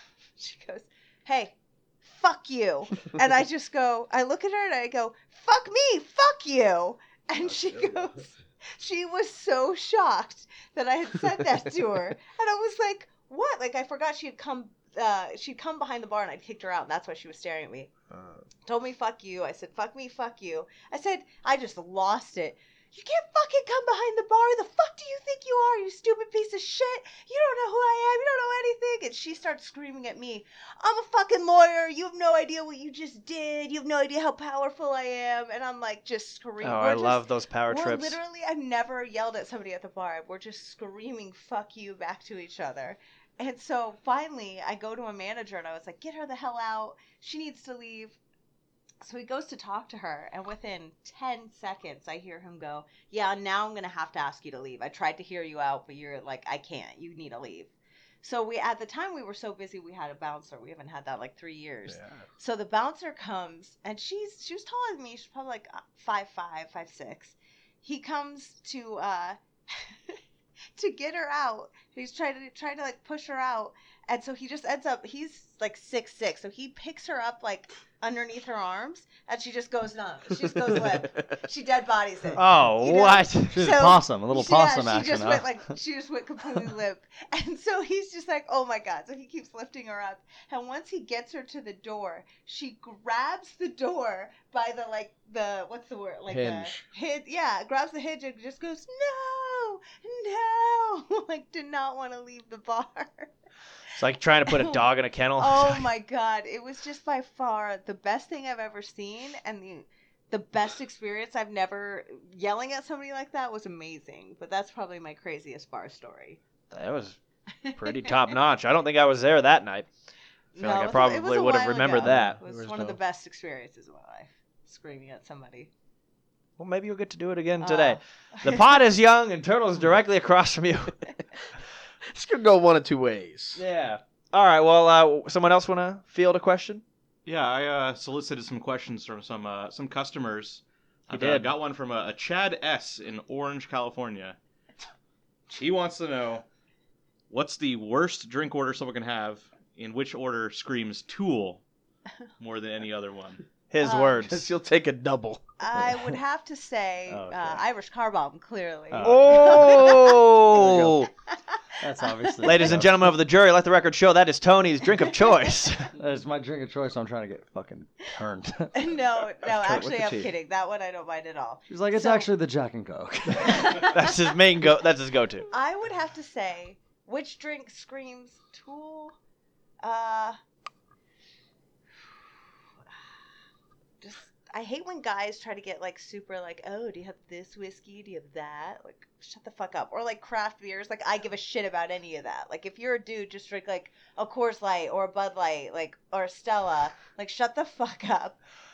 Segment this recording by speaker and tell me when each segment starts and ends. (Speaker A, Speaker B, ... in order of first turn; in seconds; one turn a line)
Speaker A: 0.4-17.9
Speaker B: 18.1-18.4
Speaker A: 18.7-48.2
Speaker C: 36.6-38.2
Speaker A: 49.0-70.2
Speaker B: 61.9-62.2
Speaker A: 70.8-103.3
Speaker B: 80.7-81.0
Speaker C: 82.3-83.7
Speaker D: 83.5-85.6
Speaker B: 96.3-96.8
Speaker C: 104.0-105.9
Speaker A: 104.5-104.8
Speaker A: 105.4-116.4
Speaker C: 116.7-117.2
Speaker A: 117.6-118.3
Speaker C: 117.7-119.9
Speaker A: 120.5-125.7
Speaker C: 120.6-122.4
Speaker B: 122.0-123.0
Speaker C: 126.6-131.1
Speaker A: 127.6-128.6
Speaker B: 132.1-133.6
Speaker C: 133.6-136.8
Speaker E: 137.2-144.4
Speaker C: 141.1-141.5
Speaker E: 145.5-146.4
Speaker E: 147.3-151.6
Speaker E: 152.4-153.4
Speaker C: 153.7-154.5
Speaker A: 153.8-154.2
Speaker B: 154.2-156.2
Speaker A: 155.6-160.3
Speaker D: 157.1-157.6
Speaker D: 158.9-159.8
Speaker C: 159.0-161.1
Speaker B: 160.5-161.0
Speaker D: 161.8-162.9
Speaker A: 162.1-162.8
Speaker C: 162.4-165.9
Speaker D: 166.0-168.7
Speaker A: 168.7-172.3
Speaker B: 169.4-170.3
Speaker D: 171.7-173.9
Speaker A: 173.4-174.1
Speaker C: 173.8-175.5
Speaker A: 175.5-179.2
Speaker A: 179.8-180.4
Speaker A: 184.0-198.4